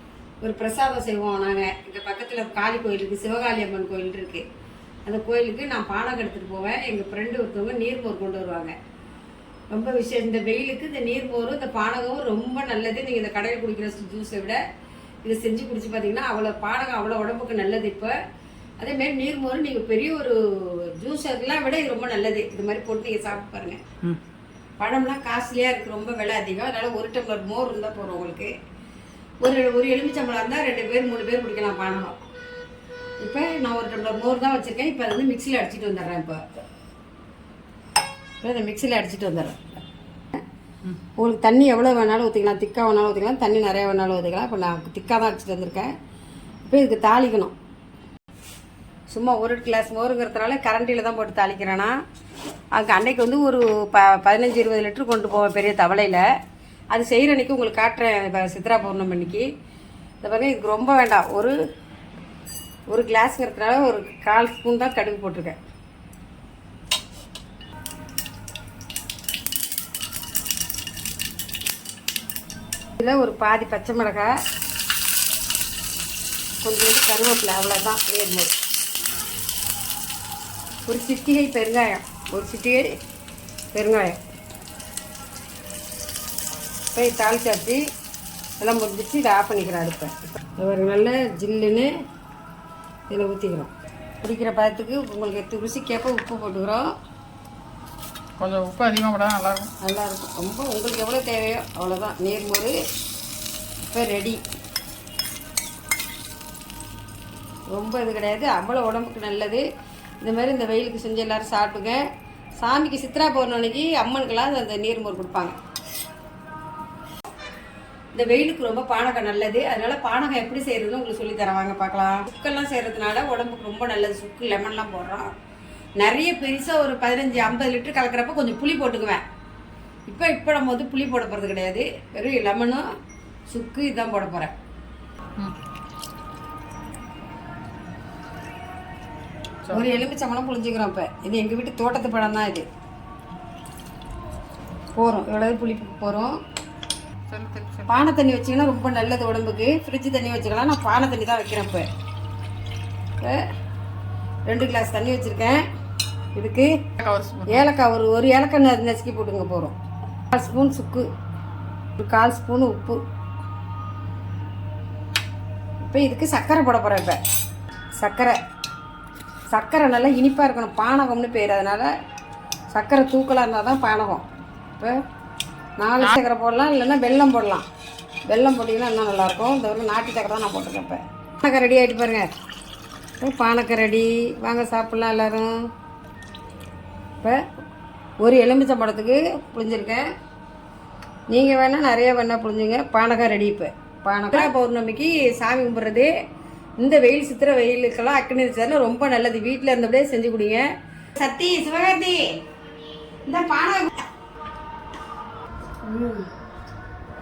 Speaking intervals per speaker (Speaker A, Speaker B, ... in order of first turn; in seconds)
Speaker A: 0.4-4.4, 5.0-8.7, 9.7-14.6, 15.2-18.1, 18.8-23.8, 24.8-28.5, 29.4-32.2, 33.2-36.4, 38.4-39.7, 41.2-45.9, 46.7-47.5, 49.1-51.9, 52.7-56.2, 56.9-59.5, 60.2-61.5, 62.9-65.6, 73.0-74.4, 76.6-78.5, 80.8-82.9, 83.7-84.2, 86.9-87.8, 88.6-91.9, 93.1-93.7, 94.2-96.9, 99.8-102.7, 103.8-104.4, 107.7-109.6, 110.2-112.0, 112.6-115.5, 118.1-125.3, 126.0-129.2, 130.1-132.9, 133.5-134.5, 139.7-142.7, 144.9-146.4, 147.9-151.9, 154.5-155.6, 156.3-156.8, 157.5-159.7, 160.3-161.1, 162.0-163.0, 165.8-167.2, 168.0-168.4, 169.5-171.9, 172.7-174.2, 175.8-177.7, 178.3-182.3, 183.2-185.7, 188.2-190.1, 191.3-196.1, 196.8-202.4, 203.3-204.0, 205.8-206.3
Speaker B: 98.4-99.7, 139.6-140.0, 147.3-147.9, 157.0-157.7